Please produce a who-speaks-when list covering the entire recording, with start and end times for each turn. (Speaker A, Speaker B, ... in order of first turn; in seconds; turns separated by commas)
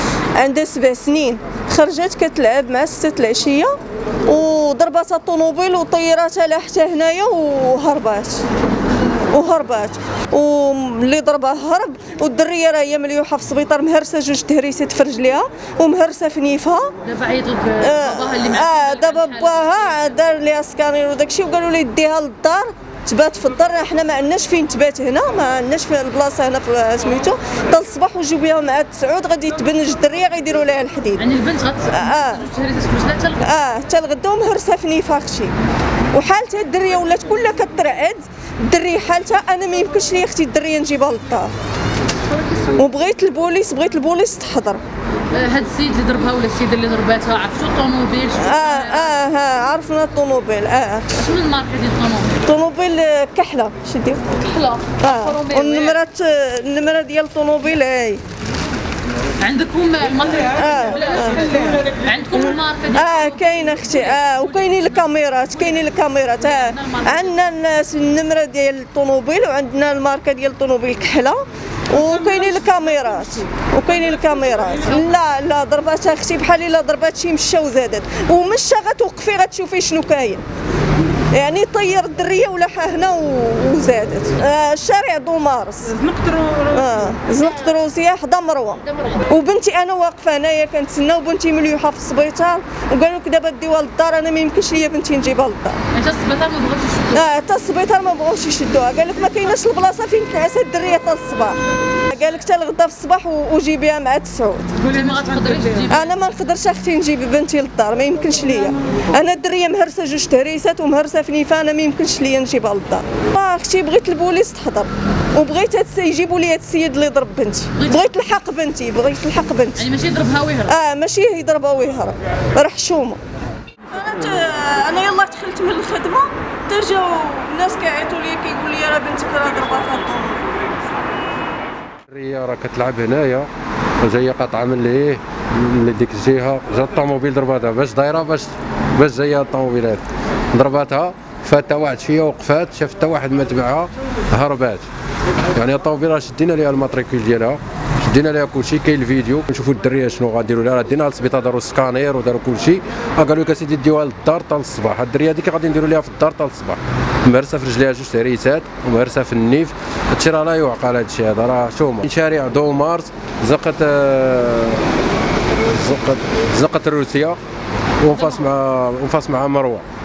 Speaker A: 0.3-3.7, Speaker A: 4.2-8.4, Speaker A: 9.3-16.9, Speaker B: 17.0-20.2, Speaker A: 17.8-31.2, Speaker B: 31.2-33.5, Speaker A: 31.9-32.4, Speaker A: 33.4-35.5, Speaker A: 36.1-41.5, Speaker A: 42.7-44.8, Speaker B: 45.3-49.2, Speaker A: 48.4-51.2, Speaker B: 51.1-52.3, Speaker A: 52.4-54.3, Speaker B: 54.4-56.0, Speaker A: 55.0-58.2, Speaker B: 59.4-65.0, Speaker A: 60.5-61.5, Speaker A: 62.5-80.4, Speaker B: 66.4-67.3, Speaker A: 81.3-86.1, Speaker A: 86.7-95.8, Speaker B: 95.9-97.3, Speaker A: 97.1-104.8, Speaker B: 104.8-106.2, Speaker A: 105.9-119.9, Speaker B: 117.8-118.1, Speaker B: 119.8-120.7, Speaker A: 120.7-123.2, Speaker A: 123.9-130.4, Speaker C: 132.1-144.8, Speaker C: 145.5-164.9, Speaker C: 165.5-167.4, Speaker C: 168.0-169.8, Speaker B: 168.2-168.4